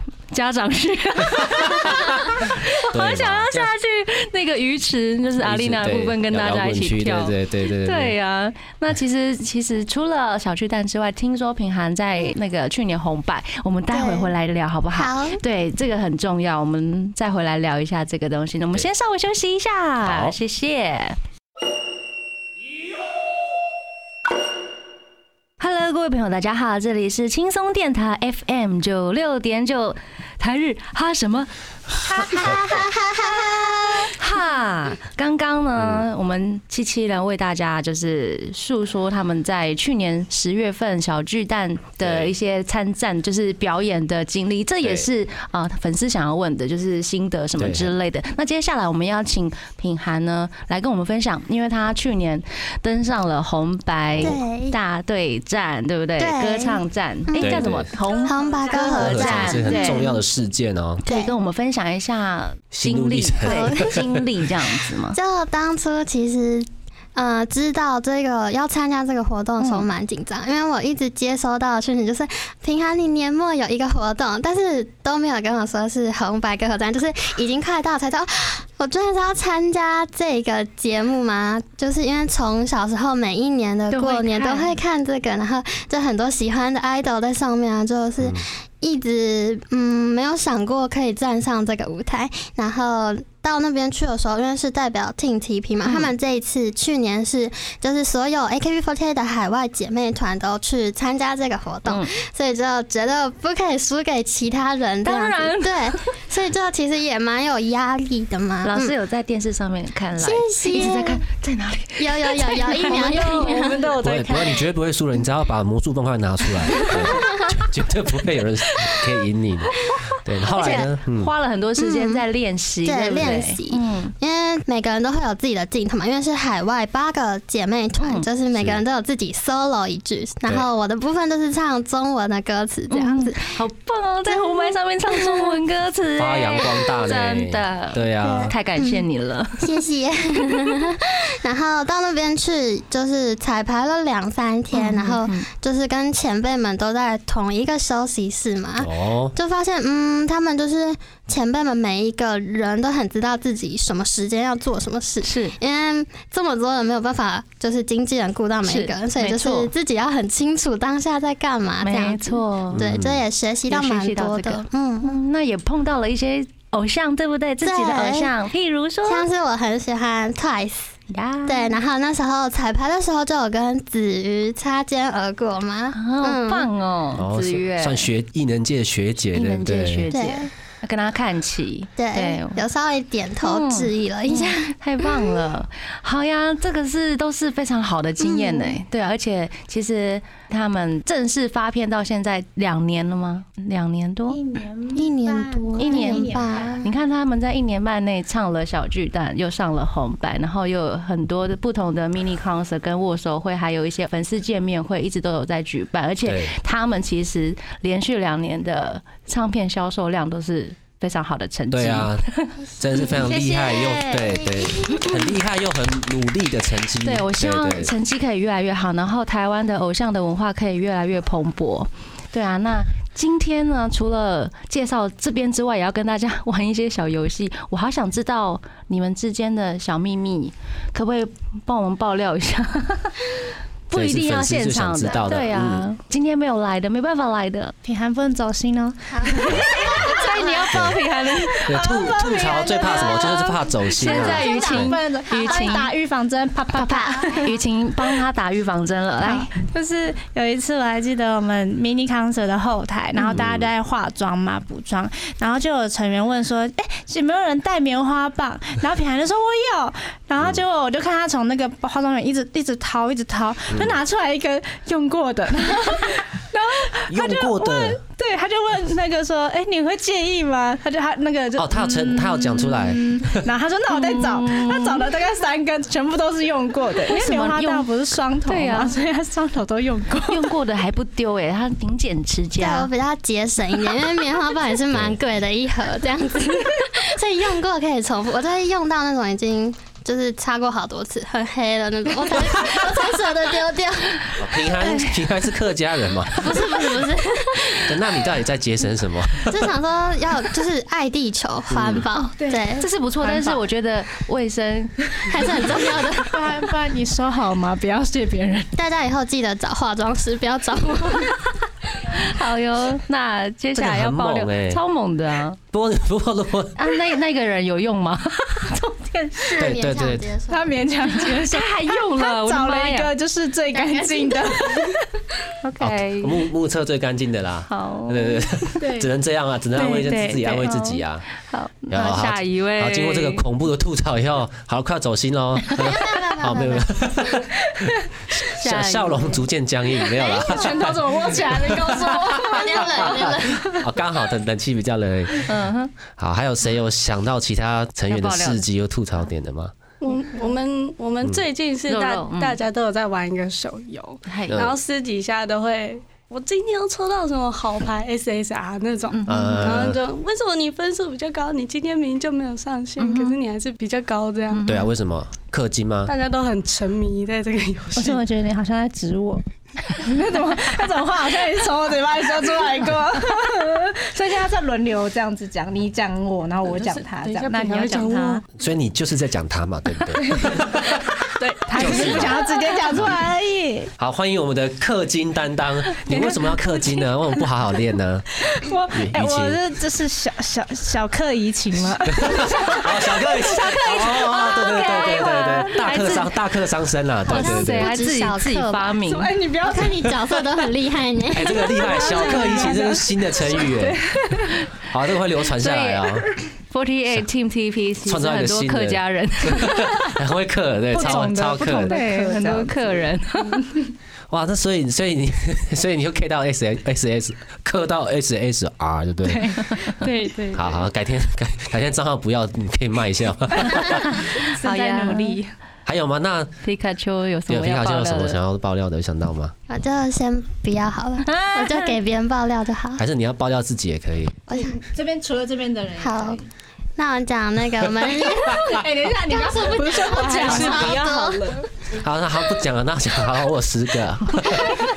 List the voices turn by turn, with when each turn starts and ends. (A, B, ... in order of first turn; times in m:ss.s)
0:00.3-0:21.2 A
0:01.4-0:03.7 B
0:05.4-0:08.2 B
0:13.9-0:14.3 C
0:14.9-0:15.4 C
0:20.0-0:20.4 B
0:25.6-0:31.5 A
0:32.0-0:34.1 C
0:32.2-0:32.5 A
0:32.4-0:32.7 B
0:34.1-1:00.1 A
0:35.7-0:36.0 B
0:42.0-0:42.3 B
0:44.8-0:45.1 B
0:47.6-0:47.9 B
0:54.1-0:54.4 B
0:54.2-0:54.8 C
0:56.2-1:00.2 C
0:57.4-0:57.9 B
0:58.8-1:01.0 B
1:01.0-1:05.2 A
1:01.1-1:01.3 C
1:02.7-1:04.2 B
1:03.4-1:04.0 C
1:05.1-1:48.9 C
1:09.6-1:09.9 A
1:23.9-1:24.8 A
1:28.2-1:28.4 B
1:35.8-1:36.1 A
1:41.8-1:42.1 A
1:45.0-1:46.0 A
1:48.6-1:54.0 A
1:50.2-1:51.2 C
1:52.0-1:54.1 C
1:54.0-2:01.3 B
1:56.8-1:57.5 C
2:00.5-2:04.1 A
2:00.6-2:00.8 C
2:01.8-2:02.2 C
2:02.8-2:13.6 C
2:08.0-2:08.3 A
2:08.5-2:08.8 B
2:12.9-2:19.8 A
2:14.2-2:15.6 C
2:16.2-2:18.5 B
2:18.2-2:19.0 C
2:19.6-2:45.1 C
2:24.7-2:25.4 A
2:28.8-2:29.3 B
2:35.2-2:35.5 A
2:38.6-2:39.7 A
2:41.8-2:42.8 A
2:42.7-2:43.2 B
2:43.7-2:49.3 A
2:47.6-2:48.3 C
2:49.0-2:50.9 C
2:51.1-2:51.8 A
2:51.4-2:56.7 C
2:55.9-2:58.1 A
2:57.2-3:00.1 B
2:59.3-3:02.6 A
3:00.1-3:00.5 C
3:02.0-3:05.4 C
3:03.4-3:14.4 A
3:08.2-3:08.8 C
3:14.3-3:16.8 D
3:14.9-3:16.9 C
3:15.8-3:33.0 A
3:26.2-3:26.5 B
3:31.7-3:32.2 B
3:32.8-3:37.9 B
3:33.2-3:34.2 D
3:37.0-3:57.7 A
3:53.9-3:55.9 B
3:57.8-4:00.3 D
3:59.1-4:00.6 C
3:59.3-4:01.7 A
4:00.7-4:01.0 B
4:01.5-4:07.6 D
4:01.6-4:05.0 B
4:03.9-4:05.9 A
4:05.4-4:05.7 C
4:06.7-4:09.5 A
4:07.1-4:07.5 C
4:09.2-4:40.5 D
4:13.3-4:13.7 B
4:23.7-4:24.0 B
4:27.1-4:28.0 B
4:31.6-4:33.5 B
4:33.9-4:35.0 A
4:37.1-4:37.9 A
4:38.5-4:38.9 A
4:40.3-4:42.9 A
4:42.6-4:54.6 C
4:54.4-4:56.8 B
4:56.5-4:57.6 C
4:56.7-4:57.0 D
4:57.8-4:59.7 B
4:59.5-5:02.9 C
5:01.7-5:02.0 B
5:02.2-5:02.6 D
5:02.8-5:04.9 A
5:03.2-5:03.6 D
5:05.3-5:06.4 C
5:06.2-5:08.8 D
5:08.8-5:11.4 C
5:12.1-5:15.6 A
5:13.7-5:14.8 B
5:15.7-5:16.8 B
5:16.8-5:18.9 A
5:18.9-5:19.3 D
5:19.4-5:20.8 C
5:19.6-5:20.3 B
5:20.5-5:25.2 D
5:21.4-5:23.1 A
5:25.6-5:26.4 A
5:25.8-5:31.2 B
5:27.7-5:28.4 A
5:28.8-5:29.1 D
5:29.8-5:33.4 A
5:29.9-5:30.8 D
5:31.9-5:49.7 B
5:35.8-5:37.1 C
5:38.5-5:39.4 A
5:40.0-5:43.8 D
5:42.4-5:43.6 C
5:45.4-5:45.9 A
5:48.1-5:48.6 A
5:50.0-6:04.6 E
5:51.9-5:52.6 A
5:54.3-5:54.6 A
5:54.5-5:54.7 B
5:59.1-5:59.7 A
5:59.3-6:00.0 B
6:03.0-6:03.4 A
6:04.5-6:04.9 A
6:04.6-6:06.1 B
6:06.0-6:08.2 E
6:08.0-6:18.4 D
6:16.6-6:18.4 E
6:18.5-6:21.0 B
6:20.2-6:20.6 D
6:21.6-6:23.9 D
6:21.6-6:22.0 E
6:21.7-6:23.1 B
6:24.0-6:28.3 B
6:25.9-6:27.4 D
6:28.4-6:36.0 D
6:28.9-6:29.6 B
6:32.0-6:38.0 B
6:34.0-6:36.3 A
6:37.3-6:39.3 A
6:37.3-6:39.0 C
6:39.2-6:39.9 D
6:39.6-6:41.7 C
6:41.3-6:44.0 B
6:41.6-6:44.5 D
6:44.8-6:46.3 B
6:45.6-6:50.1 A
6:48.0-6:52.0 B
6:50.9-6:52.8 D
6:51.7-6:53.9 A
6:54.3-6:59.9 B
6:59.2-7:00.7 D
7:00.5-7:04.3 B
7:04.1-7:05.4 A
7:04.4-7:05.5 D
7:05.8-7:06.5 B
7:06.6-7:08.4 A
7:07.5-7:09.5 B
7:09.7-7:13.0 C
7:11.2-7:11.9 A
7:13.0-7:14.4 B
7:14.5-7:14.8 C
7:14.6-7:16.4 D
7:16.0-7:16.4 C
7:17.0-7:21.6 C
7:18.4-7:21.7 D
7:20.4-7:21.0 B
7:21.9-7:24.8 B